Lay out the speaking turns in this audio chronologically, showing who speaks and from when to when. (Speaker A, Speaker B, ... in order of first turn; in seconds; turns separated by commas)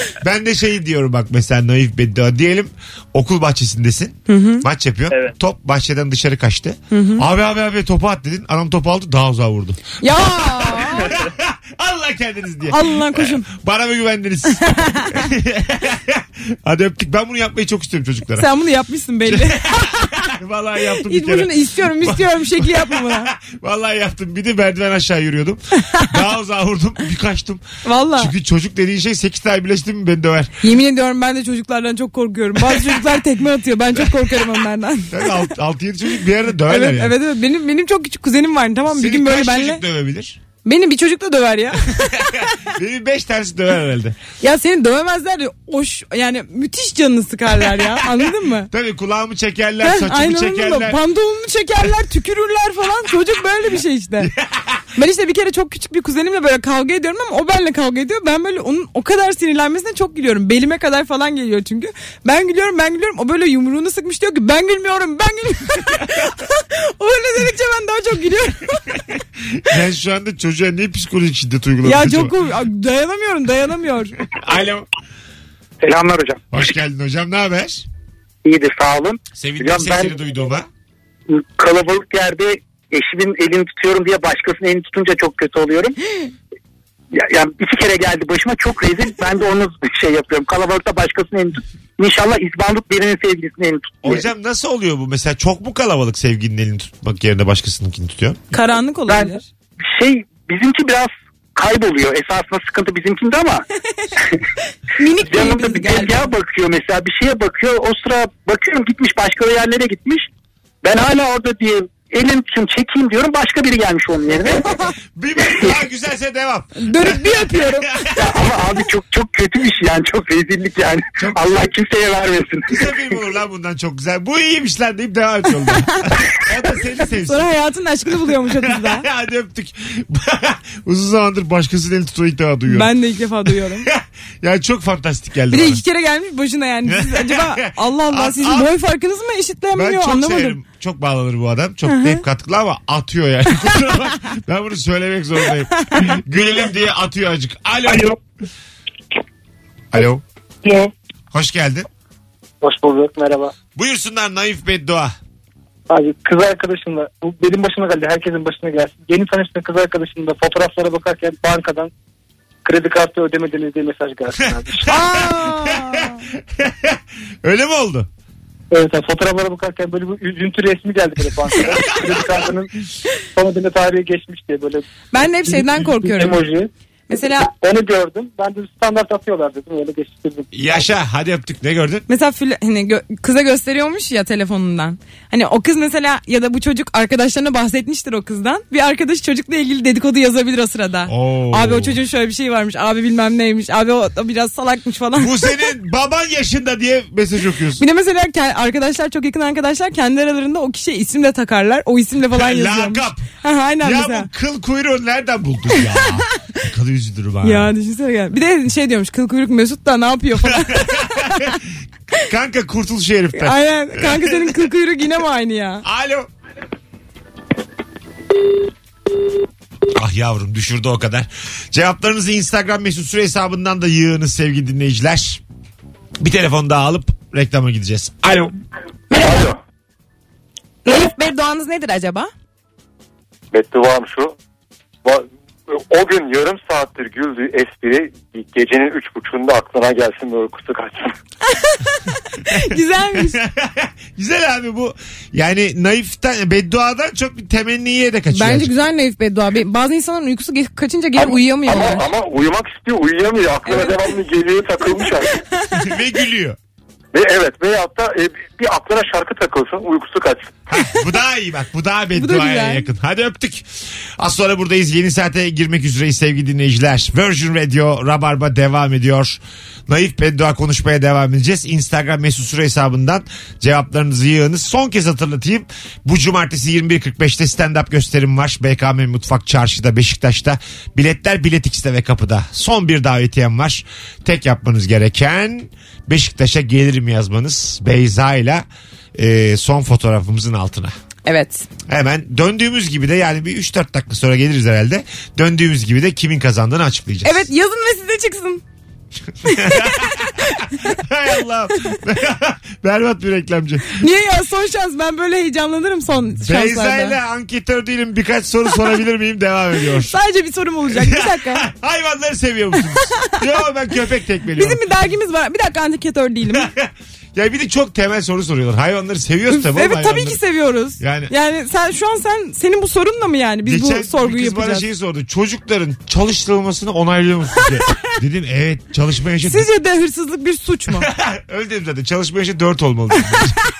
Speaker A: 0.2-9.8, Speaker B: 4.3-4.7, Speaker B: 6.9-7.2, Speaker B: 10.0-11.2, Speaker A: 10.4-18.5, Speaker B: 12.7-13.4, Speaker B: 14.6-15.2, Speaker B: 18.4-20.3, Speaker A: 19.3-27.6, Speaker B: 21.0-23.3, Speaker B: 25.8-26.1, Speaker B: 27.8-28.3, Speaker A: 28.2-30.6, Speaker B: 30.6-35.5, Speaker A: 32.6-33.2, Speaker A: 34.0-34.4, Speaker A: 35.1-37.2, Speaker B: 36.6-39.8, Speaker A: 38.9-40.4, Speaker B: 40.6-42.6, Speaker A: 42.0-44.2, Speaker B: 44.4-48.7, Speaker A: 47.6-51.0, Speaker B: 49.8-54.3, Speaker A: 54.2-54.9, Speaker B: 55.0-68.9, Speaker A: 69.5-72.3, Speaker B: 71.8-74.2, Speaker A: 74.3-74.9, Speaker C: 75.8-76.6, Speaker A: 76.5-77.9, Speaker C: 78.5-80.2, Speaker A: 79.4-80.7, Speaker C: 81.3-86.0, Speaker C: 87.1-94.2, Speaker A: 94.0-98.5, Speaker B: 98.5-99.5, Speaker C: 99.1-99.4, Speaker C: 99.9-103.6, Speaker B: 105.0-106.3, Speaker C: 105.2-110.3, Speaker C: 110.8-114.7, Speaker A: 115.2-118.5, Speaker C: 115.5-115.7, Speaker B: 116.8-117.9, Speaker C: 118.2-122.8, Speaker A: 121.2-121.5, Speaker A: 122.7-127.5, Speaker B: 127.2-129.1, Speaker A: 128.4-132.9, Speaker B: 132.7-133.9, Speaker A: 133.8-135.8, Speaker B: 135.5-140.6, Speaker A: 136.9-138.7, Speaker A: 139.7-148.2, Speaker B: 141.9-142.2, Speaker A: 149.9-150.2, Speaker A: 151.3-151.9, Speaker D: 152.6-153.5, Speaker A: 153.8-155.2, Speaker D: 155.9-161.9, Speaker D: 162.7-164.9, Speaker A: 164.8-166.1, Speaker B: 164.9-166.2, Speaker A: 166.6-168.1, Speaker D: 168.7-172.7, Speaker D: 173.4-174.9, Speaker B: 175.1-176.4, Speaker D: 175.5-176.7, Speaker B: 177.1-177.5, Speaker D: 177.5-180.5, Speaker A: 180.5-182.1, Speaker B: 182.1-195.4, Speaker A: 191.1-192.0, Speaker A: 195.2-197.8, Speaker B: 197.8-204.3, Speaker A: 202.3-203.3, Speaker A: 203.8-207.7, Speaker B: 207.4-211.6, Speaker A: 210.4-211.7, Speaker A: 212.2-214.6, Speaker B: 213.4-215.8, Speaker A: 215.8-216.3, Speaker A: 219.9-225.4, Speaker A: 226.2-228.6, Speaker B: 229.1-229.5, Speaker E: 229.1-229.6, Speaker B: 230.8-232.3, Speaker E: 233.5-234.3, Speaker E: 235.1-241.1, Speaker B: 241.5-243.4, Speaker A: 243.1-248.7, Speaker B: 248.3-252.1, Speaker E: 251.2-255.3, Speaker B: 253.7-254.0, Speaker A: 255.7-256.6, Speaker E: 257.1-260.5, Speaker A: 260.7-263.7, Speaker B: 262.1-262.9, Speaker A: 264.2-290.9, Speaker B: 291.3-291.7, Speaker A: 291.9-297.5, Speaker B: 297.2-298.6, Speaker A: 299.4-304.0, Speaker B: 299.4-300.6, Speaker B: 304.0-307.2, Speaker A: 306.4-310.1, Speaker B: 310.1-311.6, Speaker A: 310.9-314.8, Speaker B: 313.0-313.3, Speaker B: 314.6-316.7, Speaker A: 316.5-320.4, Speaker B: 319.5-324.9, Speaker A: 321.0-321.3, Speaker A: 323.6-329.7, Speaker B: 329.4-331.1, Speaker A: 330.9-333.6